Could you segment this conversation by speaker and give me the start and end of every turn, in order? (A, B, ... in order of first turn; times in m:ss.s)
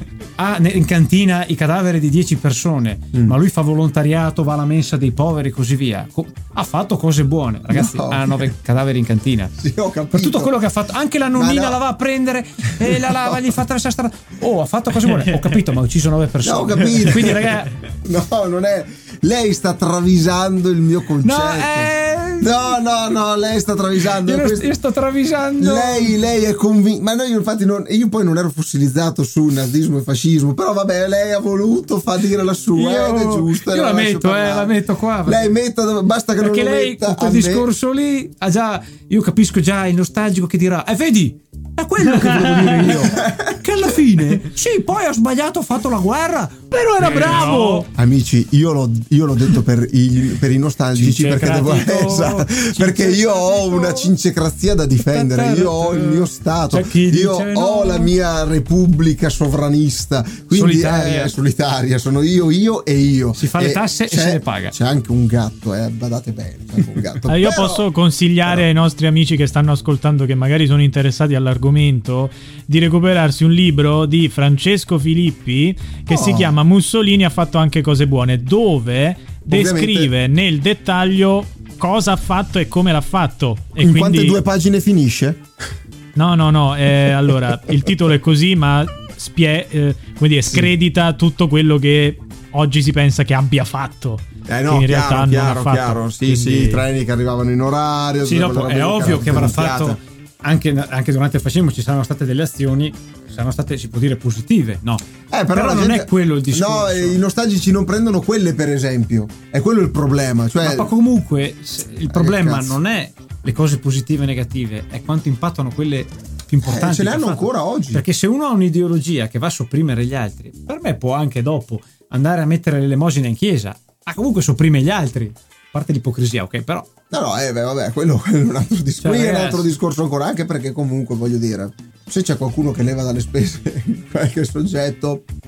0:00.4-0:09.5 A
0:07.7-0:08.5 B
0:09.6-0:10.6 B
0:10.1-0:17.7 A
0:11.3-0:11.8 B
0:12.8-0:13.3 B
0:16.4-0:24.7 B
0:21.2-0:22.8 A
0:24.0-0:26.2 A
0:25.6-0:37.7 B
0:32.7-0:35.5 A
0:36.4-0:47.9 A
0:42.3-0:43.6 B
0:47.0-0:47.9 C
0:47.9-1:07.8 B
0:50.9-0:54.1 A
0:55.0-0:58.1 A
1:00.5-1:01.3 A
1:03.4-1:04.8 A
1:07.3-1:24.4 C
1:16.1-1:16.5 B
1:19.5-1:20.1 B
1:23.8-1:25.4 B
1:26.2-1:36.9 C
1:34.5-1:40.0 B
1:38.2-1:47.2 A
1:45.3-1:50.9 B
1:50.6-2:06.9 A
1:52.1-1:52.8 B
1:56.6-1:58.0 B
2:07.1-2:15.2 B
2:09.0-2:09.7 A